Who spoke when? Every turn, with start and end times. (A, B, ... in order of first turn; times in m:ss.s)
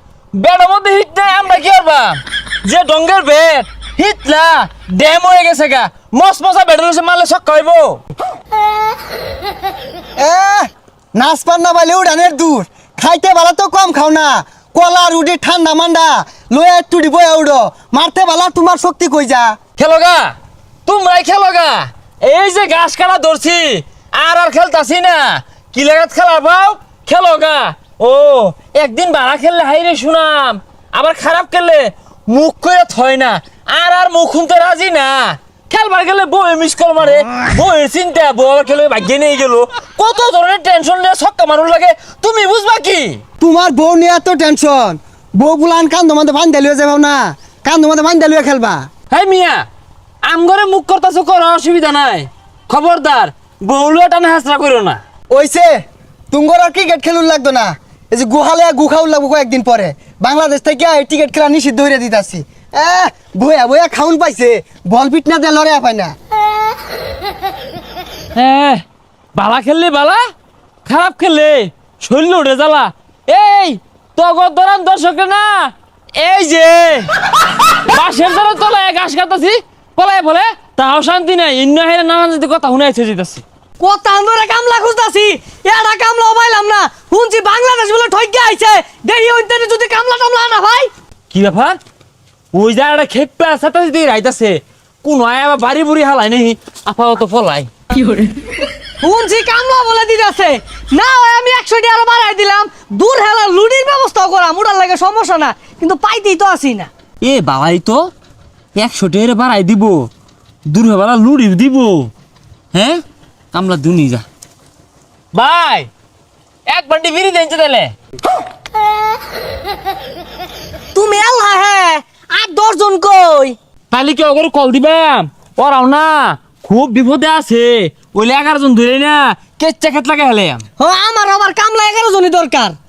0:00.4-0:08.0 A
0:10.2-0:19.5 B
0:19.8-0:43.2 A
0:43.4-0:48.8 B
0:49.1-0:49.6 A
0:50.2-0:55.0 A
0:55.3-0:55.7 B
0:56.3-1:06.1 B
1:08.4-1:08.8 A
1:09.4-1:10.2 A
1:10.8-1:17.2 A
1:17.7-1:23.4 A
1:23.8-1:30.9 C
1:31.3-1:31.8 A
1:32.5-1:37.7 A
1:38.0-1:38.3 C
1:39.0-1:46.9 C
1:47.2-1:48.1 A
1:48.8-1:50.1 A
1:50.7-1:52.1 A
1:52.7-1:53.0 A
1:53.5-1:54.2 A
1:55.3-1:55.9 A
1:56.7-1:57.9 A
2:00.9-2:03.6 C
2:03.9-2:10.6 A
2:10.8-2:12.8 C